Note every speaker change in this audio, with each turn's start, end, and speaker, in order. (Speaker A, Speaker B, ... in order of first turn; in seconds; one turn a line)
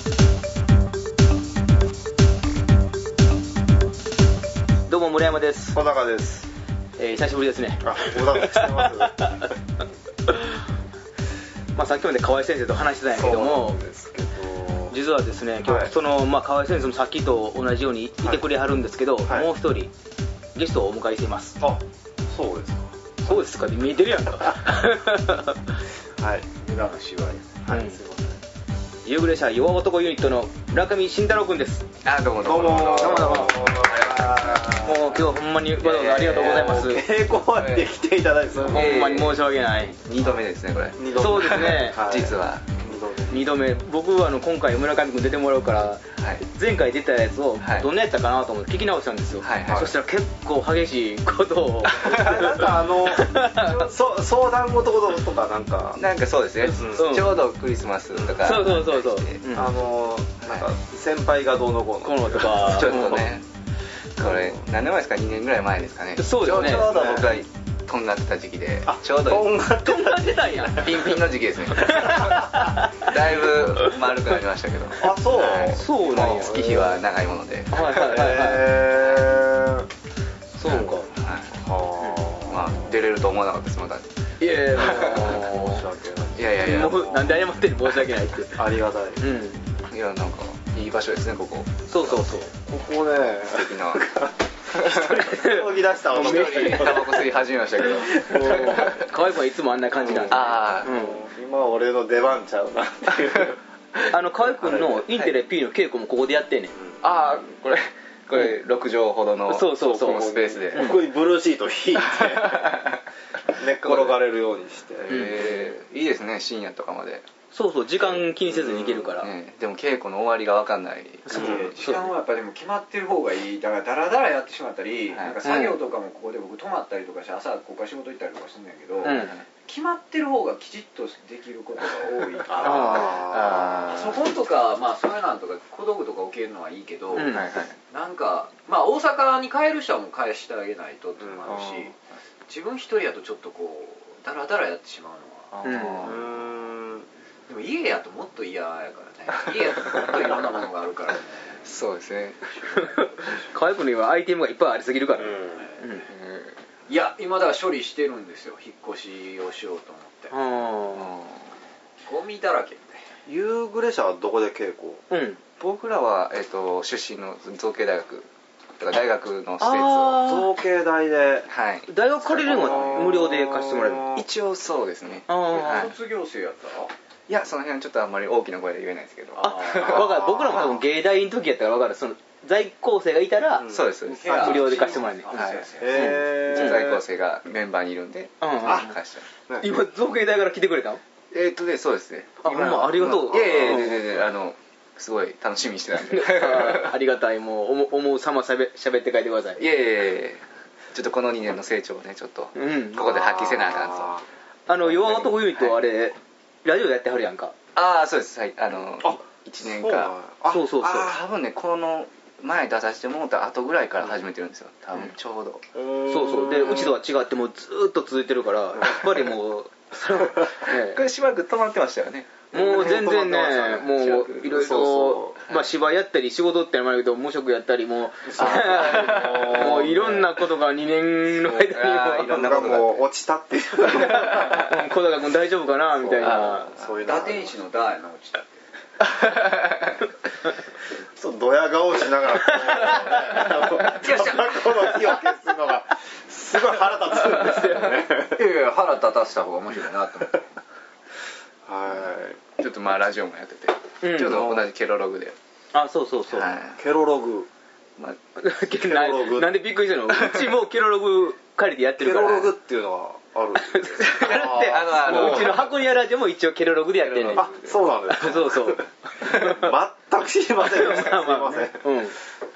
Speaker A: 4.9-5.8
Speaker B: 5.7-6.5
Speaker A: 7.0-9.5
Speaker B: 7.8-9.5
Speaker A: 11.8-13.8
Speaker B: 13.1-15.0
Speaker A: 14.9-19.9
Speaker B: 15.6-15.9
Speaker A: 20.6-21.6
Speaker B: 21.6-23.5
Speaker A: 23.2-25.6
Speaker B: 26.2-26.5
Speaker C: 26.6-27.5
Speaker B: 27.6-28.4
Speaker A: 27.7-28.0
Speaker A: 29.0-31.9
Speaker D: 32.0-36.8
Speaker B: 32.4-35.2
Speaker A: 33.0-33.6
Speaker A: 34.8-37.0
Speaker B: 36.1-39.4
Speaker D: 37.5-37.9
Speaker D: 38.6-39.4
Speaker A: 38.7-40.0
Speaker D: 40.0-42.7
Speaker B: 41.0-43.5
Speaker A: 41.1-42.0
Speaker A: 43.3-53.9
Speaker D: 46.1-46.4
Speaker D: 47.6-47.9
Speaker D: 49.4-49.9
Speaker B: 49.6-49.9
Speaker B: 51.9-56.0
Speaker D: 56.0-59.5
Speaker A: 56.6-57.4
Speaker B: 56.7-57.3
Speaker B: 58.1-58.6
Speaker A: 58.4-59.7
Speaker B: 59.5-63.3
Speaker A: 62.0-63.2
Speaker D: 62.6-63.5
Speaker D: 64.2-69.6
Speaker B: 64.2-64.6
Speaker A: 66.2-66.9
Speaker B: 66.4-67.4
Speaker B: 68.8-71.2
Speaker A: 69.8-71.2
Speaker D: 70.7-77.8
Speaker A: 71.8-73.0
Speaker B: 75.0-77.0
Speaker A: 75.7-76.8
Speaker A: 77.7-78.8
Speaker B: 77.7-79.9
Speaker D: 78.9-79.3
Speaker A: 80.6-81.1
Speaker D: 80.7-81.5
Speaker B: 81.5-82.9
Speaker A: 82.0-82.2
Speaker D: 82.5-84.1
Speaker A: 84.4-85.8
Speaker B: 84.8-87.5
Speaker D: 84.8-85.4
Speaker D: 86.3-87.2
Speaker A: 86.6-88.6
Speaker B: 88.5-89.2
Speaker A: 89.2-89.6
Speaker D: 89.8-92.2
Speaker A: 91.9-92.5
Speaker B: 92.5-99.1
Speaker D: 93.5-94.1
Speaker D: 94.7-95.5
Speaker A: 94.8-97.1
Speaker D: 96.1-99.1
Speaker A: 98.1-101.2
Speaker B: 99.9-103.6
Speaker D: 100.3-100.9
Speaker A: 104.1-106.7
Speaker B: 104.6-105.1
Speaker D: 105.1-105.3
Speaker D: 107.0-111.0
Speaker A: 109.5-111.0
Speaker B: 109.8-112.8
Speaker D: 112.0-113.0
Speaker B: 113.5-115.2
Speaker D: 113.6-114.2
Speaker D: 115.0-117.3
Speaker A: 115.1-115.5
Speaker A: 117.5-119.3
Speaker D: 118.1-121.7
Speaker A: 121.3-122.1
Speaker B: 121.3-121.8
Speaker C: 121.3-133.0
Speaker D: 125.1-125.4
Speaker A: 125.4-125.8
Speaker D: 129.0-129.5
Speaker A: 129.0-129.4
Speaker B: 132.5-134.2
Speaker D: 132.6-134.2
Speaker A: 132.6-133.0
Speaker C: 133.9-137.4
Speaker A: 137.1-137.4
Speaker D: 137.2-137.8
Speaker C: 137.9-141.9
Speaker B: 141.2-141.7
Speaker C: 142.5-145.5
Speaker D: 145.5-146.3
Speaker A: 145.6-146.1
Speaker B: 146.0-147.1
Speaker C: 147.5-151.6
Speaker D: 151.6-152.6
Speaker C: 152.6-153.4
Speaker A: 152.7-156.1
Speaker B: 155.2-155.7
Speaker C: 155.5-156.0
Speaker D: 156.1-156.6
Speaker C: 156.9-160.3
Speaker A: 160.3-161.1
Speaker D: 160.9-161.5
Speaker C: 162.1-163.0
Speaker B: 163.3-165.0
Speaker A: 165.1-165.4
Speaker D: 165.6-168.3
Speaker D: 168.8-170.2
Speaker A: 169.6-170.5
Speaker B: 170.2-171.5
Speaker D: 171.5-172.9
Speaker A: 171.9-174.1
Speaker B: 172.2-174.3
Speaker C: 172.5-173.1
Speaker D: 174.1-175.9
Speaker A: 175.3-175.9
Speaker C: 175.5-176.9
Speaker D: 177.3-180.7
Speaker C: 179.4-179.8
Speaker A: 179.4-183.7
Speaker B: 179.8-180.7
Speaker B: 183.6-185.1
Speaker D: 183.7-185.7
Speaker C: 184.0-186.2
Speaker A: 184.3-186.9
Speaker B: 185.8-187.0
Speaker D: 186.3-189.3
Speaker A: 188.4-188.9
Speaker B: 188.6-188.9
Speaker B: 189.5-189.7
Speaker A: 189.6-191.0
Speaker D: 191.3-196.9
Speaker A: 192.4-194.0
Speaker B: 192.8-193.9
Speaker A: 196.1-199.6
Speaker D: 199.6-200.4
Speaker D: 200.9-204.1
Speaker A: 202.6-203.1
Speaker B: 203.0-204.3
Speaker A: 204.7-207.5
Speaker D: 204.8-205.8
Speaker D: 207.7-210.1
Speaker B: 209.0-211.2
Speaker A: 210.5-211.1
Speaker D: 210.8-215.6
Speaker B: 215.7-217.0
Speaker A: 216.1-221.0
Speaker D: 220.7-223.2
Speaker B: 222.5-225.4
Speaker A: 222.5-232.3
Speaker D: 223.8-224.7
Speaker B: 228.3-230.3
Speaker D: 228.4-230.0
Speaker D: 231.4-233.1
Speaker B: 232.1-234.7
Speaker D: 233.9-234.7
Speaker A: 234.1-236.7
Speaker B: 236.0-237.6
Speaker D: 236.2-237.1
Speaker C: 237.0-238.5
Speaker D: 239.0-240.1
Speaker B: 241.2-248.4
Speaker A: 242.8-243.4
Speaker C: 243.9-245.0
Speaker A: 247.1-248.1
Speaker C: 248.3-250.5
Speaker B: 251.7-252.4
Speaker D: 252.6-255.4
Speaker A: 254.0-254.5
Speaker B: 254.2-254.7
Speaker A: 255.7-256.6
Speaker D: 256.3-256.8
Speaker B: 256.8-257.5
Speaker D: 258.0-258.2
Speaker A: 258.4-262.5
Speaker B: 258.8-259.6
Speaker D: 260.1-260.5
Speaker B: 262.0-265.7
Speaker A: 263.6-267.5
Speaker D: 264.0-265.8
Speaker D: 267.0-268.4
Speaker B: 267.3-272.1
Speaker A: 268.1-269.7
Speaker A: 270.6-272.2